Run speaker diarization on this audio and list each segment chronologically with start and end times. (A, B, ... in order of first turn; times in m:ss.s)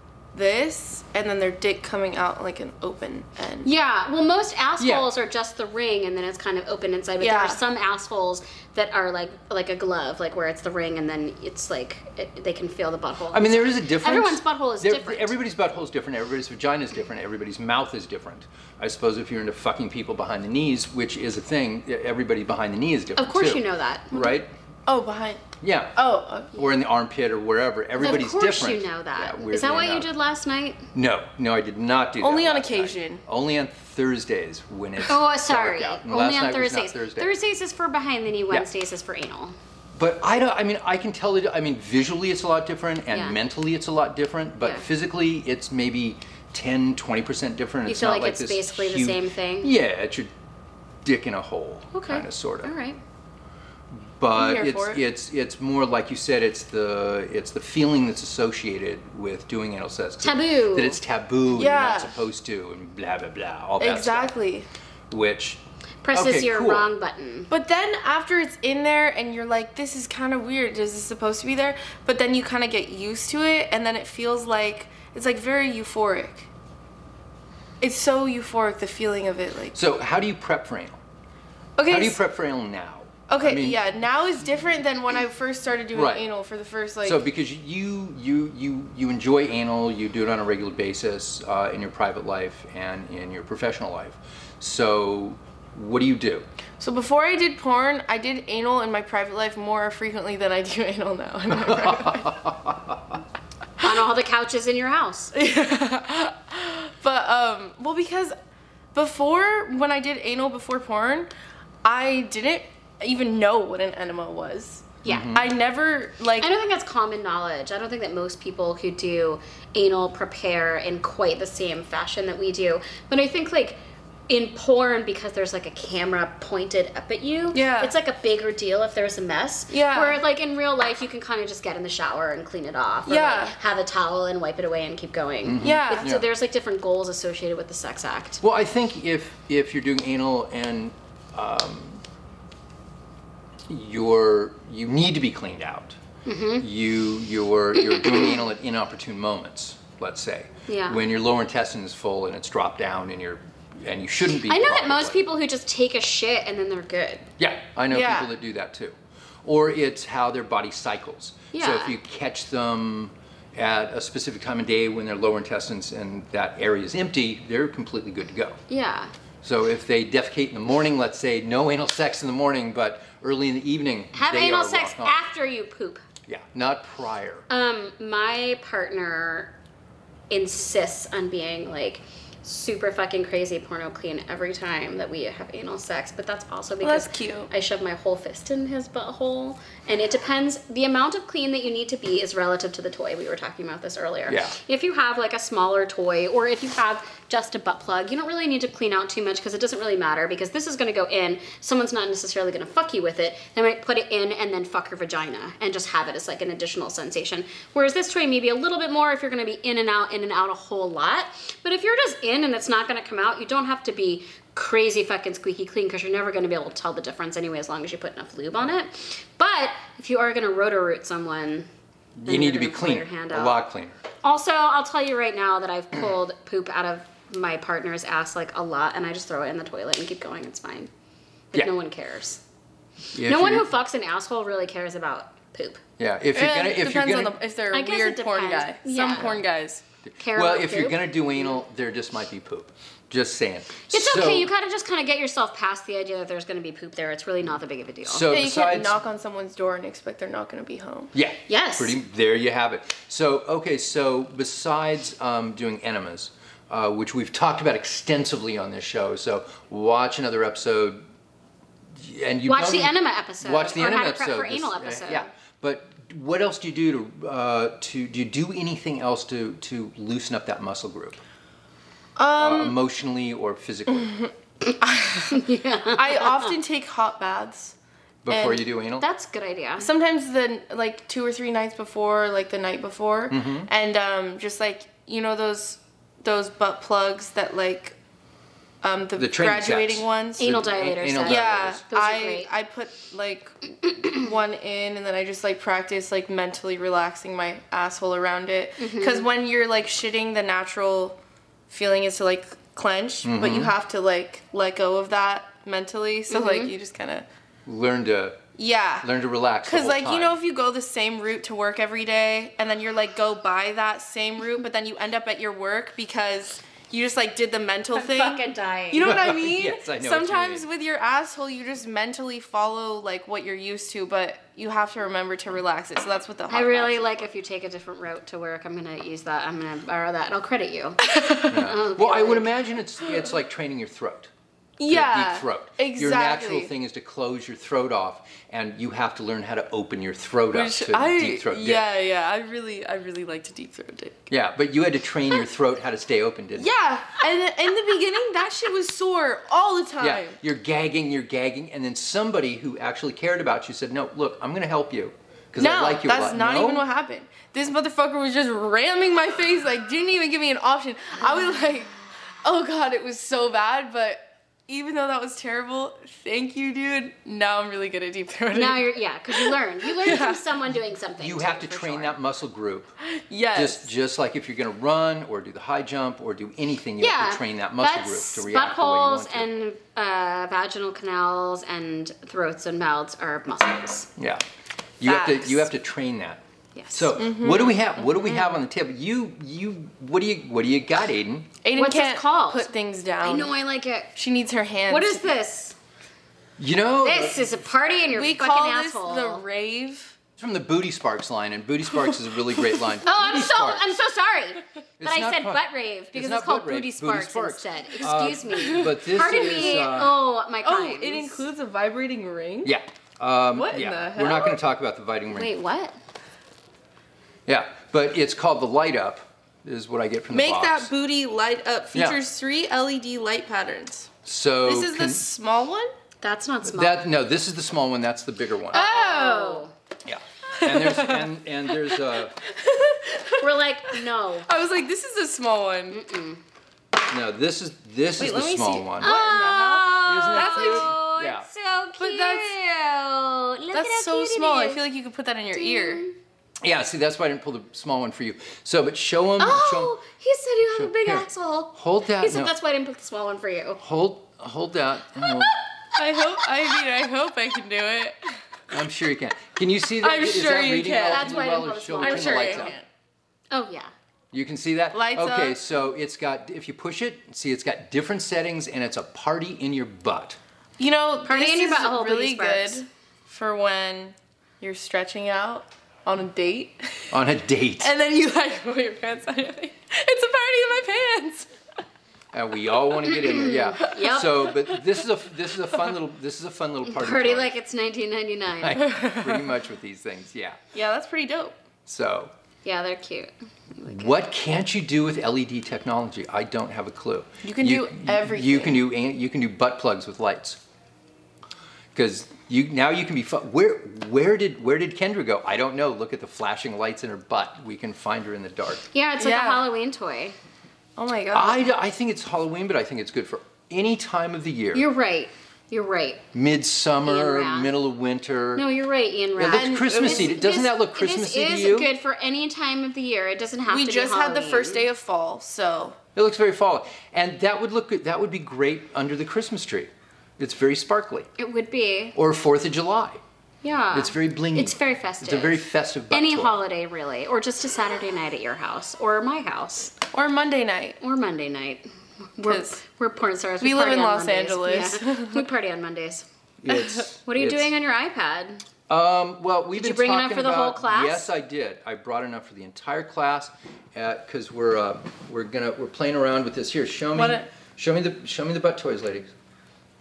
0:00.3-0:03.7 A
0:03.6-0:15.3 B
0:04.8-0:05.1 C
0:07.2-0:07.6 A
0:13.3-0:24.5 C
0:23.2-0:24.4 B
0:24.9-0:26.6 A
0:25.6-0:26.0 C
0:26.5-0:30.1 C
0:28.0-0:30.8 B
0:30.9-0:37.3 C
0:32.2-0:33.2 A
0:35.1-0:39.6 B
0:40.0-0:50.3 C
0:43.1-0:43.4 B
0:44.6-0:44.8 B
0:47.8-0:49.7 B
0:51.0-0:52.7 C
0:51.9-0:53.0 B
0:53.9-1:04.3 C
0:54.4-0:55.0 A
1:00.2-1:01.0 B
1:01.5-1:02.2 A
1:03.8-1:04.7 A
1:05.1-1:05.6 C
1:06.0-1:07.5 B
1:06.1-1:06.9 C
1:07.5-1:16.5 A
1:17.8-1:19.8 A
1:19.7-1:21.0 C
1:21.8-1:22.2 A
1:21.9-1:23.8 C
1:23.3-1:27.2 A
1:25.9-1:26.2 C
1:27.0-1:36.4 C
1:36.8-1:42.3 A
1:41.5-1:43.2 C
1:43.8-1:45.3 B
1:45.3-1:48.3 A
1:48.9-1:51.3 A
1:51.8-1:56.5 A
1:55.0-1:55.3 B
1:55.1-1:55.5 C
1:56.4-2:18.4 B
2:07.5-2:07.9 A
2:09.7-2:10.2 A
2:13.0-2:13.6 A
2:15.4-2:16.2 C
2:15.6-2:16.1 A
2:18.4-2:22.0 C
2:23.7-2:26.0 C
2:26.2-2:26.7 B
2:26.6-2:35.2 C
2:27.8-2:28.4 B
2:30.7-2:31.0 B
2:34.4-2:37.3 B
2:37.4-2:48.6 C
2:37.9-2:38.3 A
2:41.5-2:41.9 B
2:48.7-2:49.1 B
2:49.4-2:55.2 C
2:54.1-2:56.0 B
2:56.2-2:57.4 C
2:57.5-2:59.5 B
3:00.3-3:41.7 B
3:06.8-3:07.5 A
3:14.3-3:14.5 C
3:42.2-3:44.0 C
3:42.2-3:43.6 B
3:44.2-3:50.9 B
3:51.5-3:52.4 B
3:53.1-3:53.7 C
3:53.2-3:55.8 B
3:56.0-3:57.4 C
3:56.3-3:59.8 A
3:57.7-3:59.4 B
4:00.1-4:04.5 C
4:00.2-4:01.1 B
4:03.9-4:08.3 B
4:08.0-4:09.0 C
4:08.3-4:11.1 A
4:11.1-4:21.0 C
4:11.5-4:12.0 B
4:21.9-4:31.2 C
4:22.5-4:25.3 B
4:32.2-4:32.8 A
4:32.4-4:34.2 C
4:34.8-4:37.8 A
4:35.2-4:36.5 B
4:38.2-4:39.0 C
4:38.3-4:38.6 A
4:39.0-4:39.9 B
4:39.8-4:48.0 A
4:43.3-4:43.7 C
4:48.8-4:50.5 A
4:49.2-4:51.8 C
4:50.4-4:52.5 B
4:51.2-5:01.2 A
4:53.9-4:54.2 B
4:58.8-4:59.3 B
5:01.7-5:07.2 A
5:03.2-5:03.7 C
5:06.3-5:06.7 B
5:07.6-5:08.4 C
5:08.6-5:09.1 A
5:09.0-5:10.4 C
5:09.6-5:27.3 A
5:17.9-5:19.2 B
5:19.0-5:20.7 C
5:26.5-5:32.5 B
5:31.0-5:31.7 A
5:31.5-5:34.3 C
5:34.8-5:36.7 A
5:34.9-5:41.9 C
5:40.5-5:44.2 A
5:44.3-5:46.7 C
5:46.6-5:50.4 A
5:50.0-5:56.8 C
5:55.6-6:10.4 A
6:08.5-6:12.2 B
6:11.2-6:12.9 C
6:13.2-6:13.9 A
6:13.5-6:19.5 C
6:17.0-6:24.1 B
6:24.2-6:24.4 C
6:25.0-6:31.5 C
6:25.0-6:25.7 A
6:26.7-6:27.2 B
6:27.2-6:28.5 A
6:31.6-6:33.5 A
6:31.7-6:32.7 B
6:33.2-6:34.1 B
6:34.1-6:35.3 A
6:34.9-6:35.7 B
6:36.6-6:37.4 C
6:37.0-6:39.4 B
6:38.1-6:40.2 A
6:40.4-6:43.9 C
6:42.1-6:42.9 A
6:43.0-6:51.4 B
6:45.0-6:45.6 C
6:46.1-6:50.2 C
6:48.6-6:50.1 A
6:50.6-6:52.7 A
6:52.6-6:55.5 C
6:53.5-6:54.6 A
6:55.3-6:55.9 B
6:57.4-7:00.9 C
7:00.3-7:05.9 A
7:01.9-7:02.2 C
7:04.2-7:05.2 C
7:06.2-7:07.0 B
7:06.6-7:08.8 C
7:08.7-7:09.6 A
7:08.7-7:09.7 B
7:10.0-7:12.4 C
7:10.6-7:16.0 A
7:13.4-7:14.5 B
7:15.9-7:16.4 B
7:17.1-7:19.1 C
7:18.2-7:21.0 A
7:19.0-7:24.8 B
7:20.1-7:21.5 C
7:22.0-7:22.5 A
7:23.7-7:26.0 A
7:25.5-7:26.1 B
7:26.6-7:29.9 C
7:29.4-7:33.8 B
7:30.7-7:32.5 C
7:33.8-7:35.5 C
7:35.9-7:38.2 A
7:38.7-7:42.7 C
7:40.0-7:41.4 A
7:41.1-7:42.7 B
7:42.0-7:42.8 A
7:43.5-7:43.9 B
7:44.3-7:50.4 C
7:44.9-7:45.6 A
7:50.8-7:57.1 A
7:51.3-7:52.8 B
7:57.1-7:57.9 C
7:57.8-8:01.5 A
8:02.3-8:07.5 C
8:03.1-8:04.5 B
8:06.8-8:08.8 B
8:08.6-8:10.6 C
8:08.8-8:09.4 A
8:10.7-8:11.6 A
8:11.8-8:12.3 C
8:12.6-8:14.1 B
8:13.9-8:20.6 C
8:17.4-8:18.8 A
8:21.9-8:28.8 C
8:28.9-8:30.4 B
8:29.2-8:29.6 A
8:31.0-8:31.6 A
8:31.3-8:34.8 C
8:34.7-8:36.2 B
8:36.3-8:38.6 C
8:37.0-8:37.7 B
8:38.5-8:44.8 B
8:39.4-8:41.9 C
8:39.5-8:40.4 A
8:43.7-8:46.0 A
8:46.2-8:51.3 C
8:51.4-8:52.2 B
8:52.2-8:53.2 C
8:53.6-8:59.9 B
8:53.9-8:56.5 C
9:00.1-9:01.0 A
9:01.0-9:06.2 B
9:02.4-9:02.8 A
9:03.6-9:05.4 A
9:06.6-9:07.7 C
9:06.7-9:07.0 A
9:07.2-9:08.6 B
9:08.9-9:19.3 C
9:09.7-9:11.3 B
9:17.1-9:17.4 A